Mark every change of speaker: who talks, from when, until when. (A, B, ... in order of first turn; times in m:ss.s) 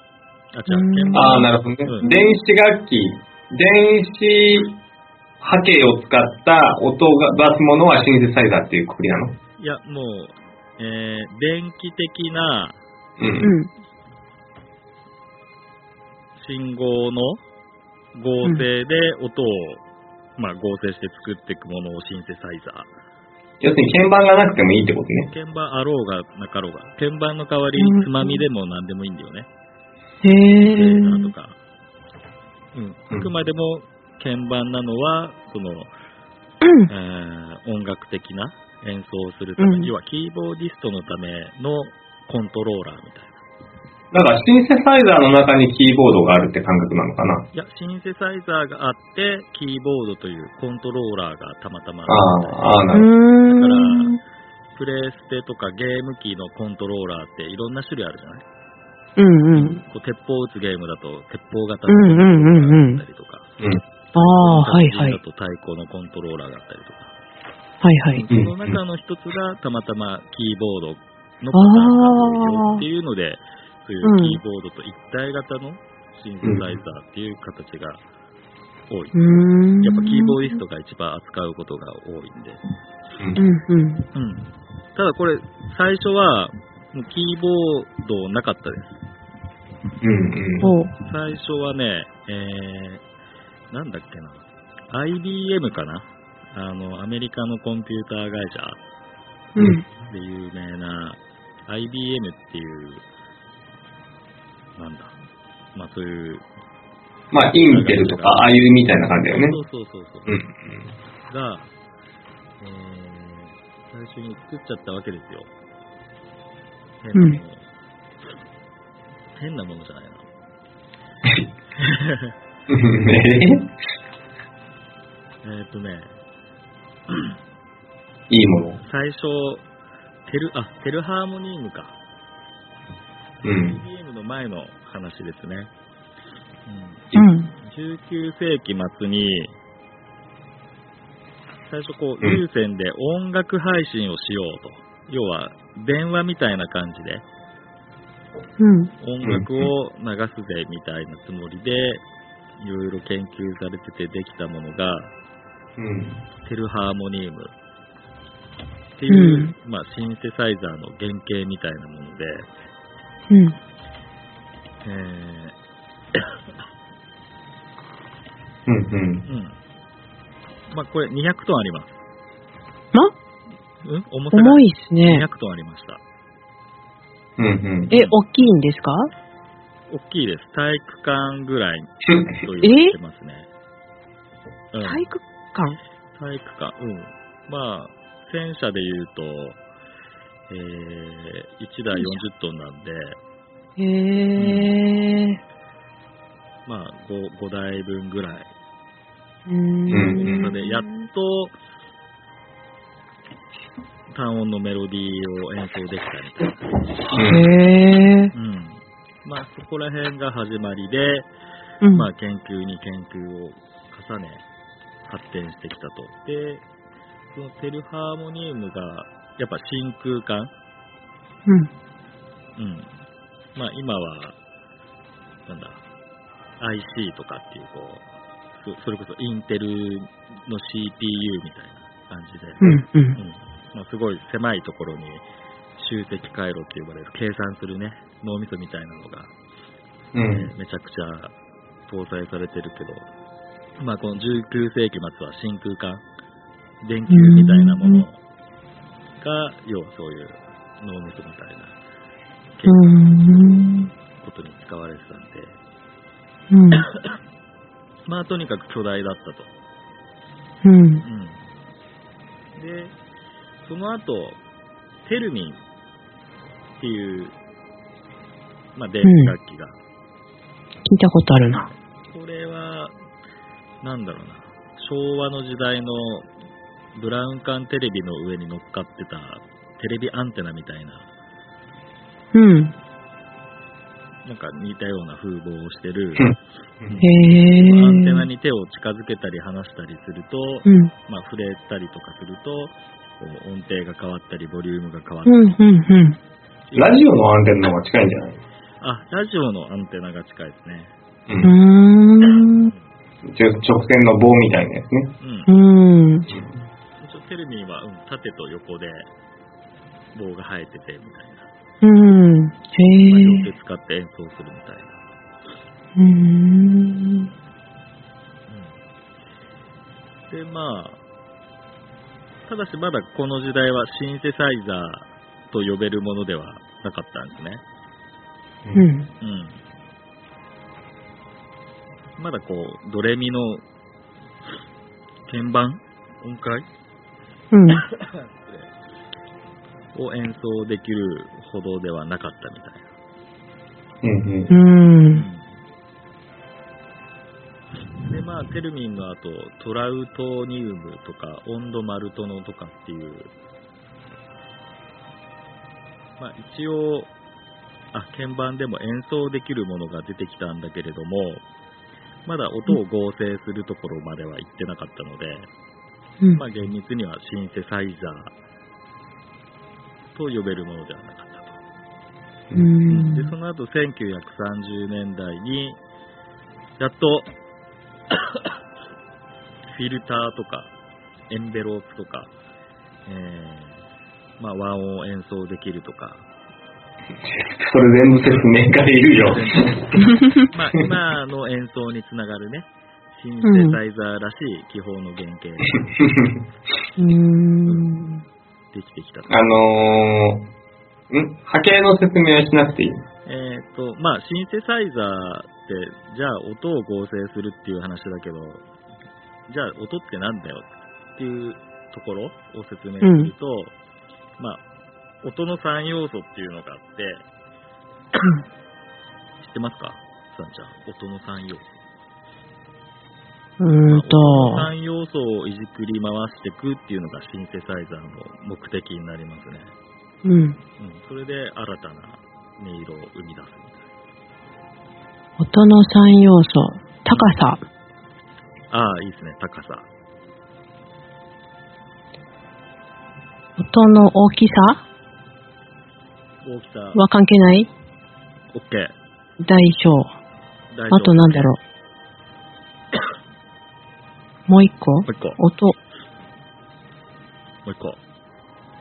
0:00.5-0:02.1 A
0:00.7-0:01.5 B
0:01.1-0:04.8 C
0:05.4-0:09.4 C
0:09.6-0:12.8 A
0:13.2-0:13.5 C
0:13.4-0:13.7 B
0:16.4-0:17.4 A
0:18.1-0:19.8 A
0:20.4-0:22.9 A
0:23.6-0:25.3 C
0:25.3-0:29.5 A
0:27.8-0:28.4 B
0:30.2-0:31.3 B
0:30.7-0:31.6 A
0:32.7-0:35.9 A
0:36.6-0:36.9 B
0:36.9-0:43.4 A
0:39.6-0:39.9 B
0:44.1-0:47.5 C
0:47.5-0:52.9 A
0:52.1-0:53.1 C
0:52.9-0:54.2 B
0:53.5-0:54.1 A
0:54.8-0:58.4 A
0:59.2-0:59.8 B
0:59.5-1:03.5 A
1:01.9-1:03.0 B
1:04.2-1:05.2 B
1:04.2-1:07.1 A
1:07.8-1:08.2 B
1:08.1-1:18.0 A
1:08.3-1:08.8 C
1:11.5-1:12.8 B
1:14.0-1:14.4 B
1:18.9-1:19.2 A
1:19.1-1:20.6 B
1:19.8-1:22.6 A
1:23.4-1:24.0 B
1:24.1-1:29.0 A
1:30.0-1:30.7 C
1:30.6-1:30.9 B
1:31.0-1:33.0 A
1:33.7-1:38.8 A
1:39.6-1:39.8 B
1:39.6-1:39.8 C
1:40.1-1:43.0 A
1:44.8-1:45.2 A
1:45.8-1:46.5 A
1:47.3-1:49.6 C
1:47.7-1:48.5 A
1:49.3-1:50.4 A
1:50.3-1:50.9 C
1:51.3-1:51.7 A
1:52.6-1:55.5 A
1:57.0-1:57.7 A
1:57.1-1:57.4 B
1:59.4-2:00.3 A
2:01.8-2:02.4 A
2:02.7-2:03.7 C
2:05.4-2:06.2 A
2:07.1-2:07.4 A
2:08.3-2:08.8 C
2:08.8-2:09.6 A
2:10.3-2:12.0 A
2:13.4-2:13.8 C
2:13.5-2:15.7 A
2:16.7-2:19.6 A
2:17.1-2:17.5 B
2:21.7-2:27.2 A
2:28.6-2:28.9 B
2:29.0-2:32.0 A
2:29.2-2:29.7 C
2:32.6-2:35.1 A
2:35.8-2:36.2 C
2:36.4-2:37.5 A
2:39.0-2:42.5 A
2:39.1-2:39.5 B
2:43.3-2:43.6 B
2:44.8-2:45.6 A
2:48.7-2:49.3 C
2:49.3-2:49.6 A
2:50.7-2:52.0 A
2:53.8-2:56.0 A
2:54.3-2:55.2 B
2:57.4-2:57.9 C
2:57.9-2:58.2 A
2:57.9-2:59.1 B
2:59.9-3:03.5 A
3:02.0-3:02.3 C
3:02.6-3:03.0 B
3:04.7-3:05.1 A
3:04.8-3:05.8 B
3:06.1-3:09.6 A
3:10.5-3:13.2 A
3:11.9-3:12.2 B
3:13.8-3:15.4 B
3:14.4-3:14.7 A
3:16.7-3:18.5 A
3:19.5-3:21.0 B
3:19.9-3:20.5 C
3:20.2-3:21.6 A
3:24.1-3:26.9 A
3:27.1-3:27.5 C
3:27.2-3:28.3 B
3:28.3-3:31.3 A
3:31.8-3:32.1 B
3:31.9-3:34.4 A
3:35.1-3:36.6 A
3:37.3-3:40.5 A
3:42.6-3:42.9 A
3:43.6-3:44.4 A
3:45.5-3:45.8 A
3:46.6-3:55.2 A
3:52.6-3:53.2 B
3:55.8-3:59.3 A
4:00.1-4:00.5 C
4:00.3-4:01.3 A
4:01.9-4:03.1 A
4:03.8-4:06.0 A
4:06.8-4:08.2 A
4:07.1-4:08.0 B
4:09.2-4:11.8 A
4:12.6-4:15.6 A
4:12.7-4:13.9 B
4:16.5-4:16.8 B
4:16.8-4:17.2 A
4:18.0-4:19.5 A
4:20.6-4:21.0 B
4:21.0-4:21.5 A
4:22.6-4:23.0 A
4:23.6-4:24.4 A
4:25.0-4:25.6 A
4:26.8-4:27.4 A
4:28.8-4:29.8 A
4:29.0-4:29.3 B
4:30.8-4:31.7 B
4:32.1-4:32.9 A
4:33.8-4:36.3 A
4:37.0-4:41.1 A
4:42.3-4:42.7 B
4:44.2-4:55.6 A
4:46.2-4:47.0 C
4:47.0-4:48.3 B
4:50.7-4:50.9 B
4:55.3-4:56.2 B
4:56.7-4:57.0 A
4:56.8-4:58.4 C
4:58.8-5:00.9 A
5:01.3-5:01.5 C
5:01.4-5:02.7 B
5:02.6-5:02.9 A
5:03.2-5:05.1 C
5:05.2-5:05.5 A
5:05.5-5:06.3 B
5:06.3-5:06.6 C
5:07.0-5:09.1 A
5:10.1-5:11.5 A
5:11.8-5:13.5 B
5:13.0-5:15.0 A
5:16.0-5:17.3 B
5:18.5-5:18.8 A
5:20.3-5:21.0 A
5:22.5-5:27.6 A
5:28.8-5:29.1 B
5:29.2-5:29.6 A
5:32.2-5:33.6 A
5:35.3-5:36.7 A
5:37.5-5:37.8 B
5:37.8-5:38.7 A
5:39.9-5:42.9 A
5:44.0-5:44.5 C
5:44.5-5:45.3 B
5:45.1-5:45.6 A
5:48.0-5:53.3 A
5:56.2-5:57.1 A
5:57.9-6:01.4 A
6:02.3-6:05.5 A
6:06.3-6:08.3 A
6:10.1-6:11.6 A
6:12.5-6:13.3 B
6:12.9-6:15.8 A
6:16.8-6:17.3 A
6:19.7-6:20.7 A
6:21.3-6:22.3 A
6:23.1-6:23.9 A
6:24.4-6:26.2 A
6:27.2-6:29.9 C
6:29.2-6:36.0 A
6:33.4-6:33.8 B
6:36.0-6:36.4 C
6:37.0-6:38.2 B
6:37.7-6:37.9 A
6:38.7-6:39.5 A
6:39.3-6:40.5 C
6:41.1-6:43.0 C
6:43.3-6:48.7 A
6:49.5-6:53.7 A
6:53.0-6:53.3 B
6:55.2-6:57.2 A
6:59.4-7:01.8 A
7:03.6-7:04.7 B
7:03.9-7:09.7 A
7:10.2-7:10.6 B
7:10.8-7:13.9 A
7:15.4-7:17.6 B
7:18.7-7:19.9 A
7:23.6-7:24.8 B
7:26.4-7:27.0 A
7:27.0-7:27.7 B
7:28.5-7:28.9 A
7:29.4-7:30.1 B
7:30.7-7:31.5 A
7:30.9-7:31.6 B
7:34.5-7:35.8 B
7:35.1-7:35.4 A
7:37.6-7:38.0 A